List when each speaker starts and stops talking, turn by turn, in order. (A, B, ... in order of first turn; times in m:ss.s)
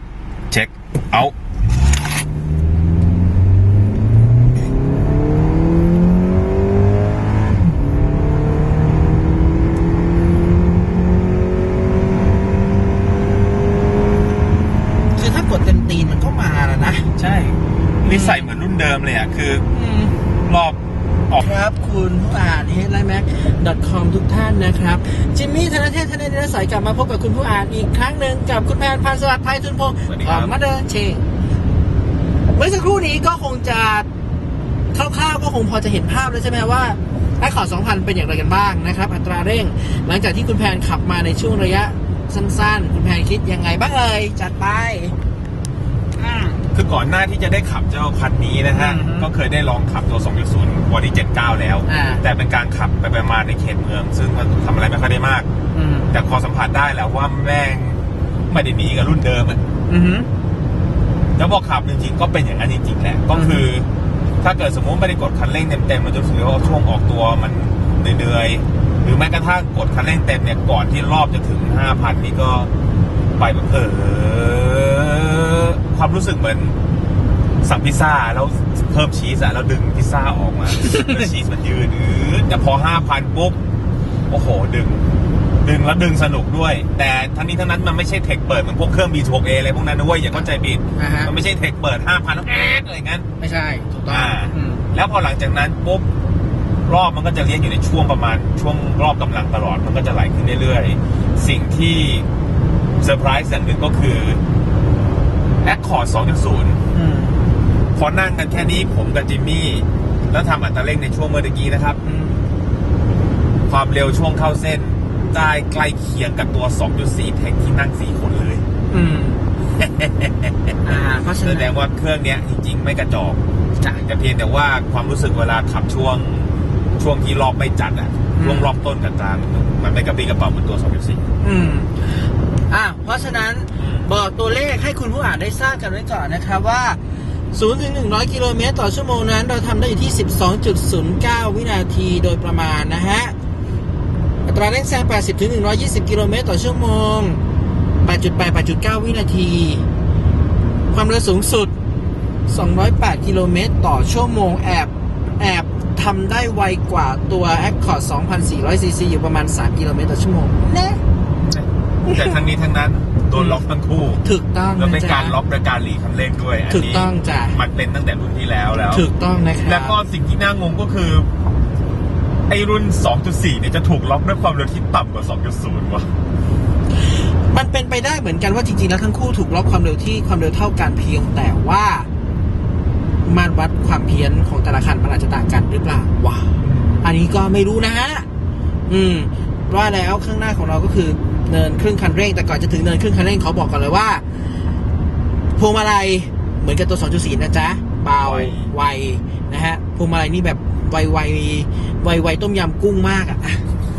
0:00.5-0:01.3 A
0:15.1-0:17.1 B
0:17.2-0:19.7 A
0:18.0-0:18.5 B
0:19.7-0:20.2 B
0:20.4-0:20.8 A
0:21.4-0:31.2 B
0:30.1-0:30.5 A
0:32.6-0:34.1 B
0:34.9-0:45.2 B
0:46.2-0:55.5 A
0:48.7-0:49.3 B
0:51.9-0:52.2 B
0:55.7-0:56.2 B
0:56.1-0:59.6 A
0:59.9-1:00.3 B
1:01.4-1:03.9 A
1:03.3-1:03.6 B
1:04.4-1:12.7 A
1:13.4-1:16.8 A
1:17.6-1:23.6 A
1:20.8-1:21.2 B
1:24.3-1:25.1 A
1:25.6-1:33.3 A
1:31.0-1:31.3 B
1:33.4-1:34.9 B
1:34.1-1:36.1 A
1:36.9-1:42.3 A
1:43.0-1:44.4 A
1:45.6-1:46.8 A
1:46.9-1:47.4 B
1:48.0-1:52.0 A
1:52.0-1:52.4 B
1:53.7-1:58.6 A
1:58.9-1:59.4 B
1:59.8-2:11.2 A
2:00.8-2:01.8 B
2:08.4-2:08.7 B
2:11.4-2:17.0 B
2:13.8-2:14.1 A
2:17.5-2:23.4 B
2:24.5-2:27.4 B
2:28.0-2:29.8 B
2:30.9-2:31.7 B
2:32.5-2:41.0 B
2:41.5-2:44.2 A
2:42.1-2:42.4 B
2:43.3-2:43.6 B
2:44.2-2:45.4 B
2:44.8-2:49.1 A
2:46.7-2:47.6 B
2:48.9-2:50.0 B
2:49.6-2:51.3 A
2:52.5-2:56.1 A
2:57.5-3:02.1 B
3:03.2-3:08.3 B
3:06.6-3:07.0 A
3:08.9-3:14.2 B
3:15.6-3:23.6 B
3:18.2-3:18.7 A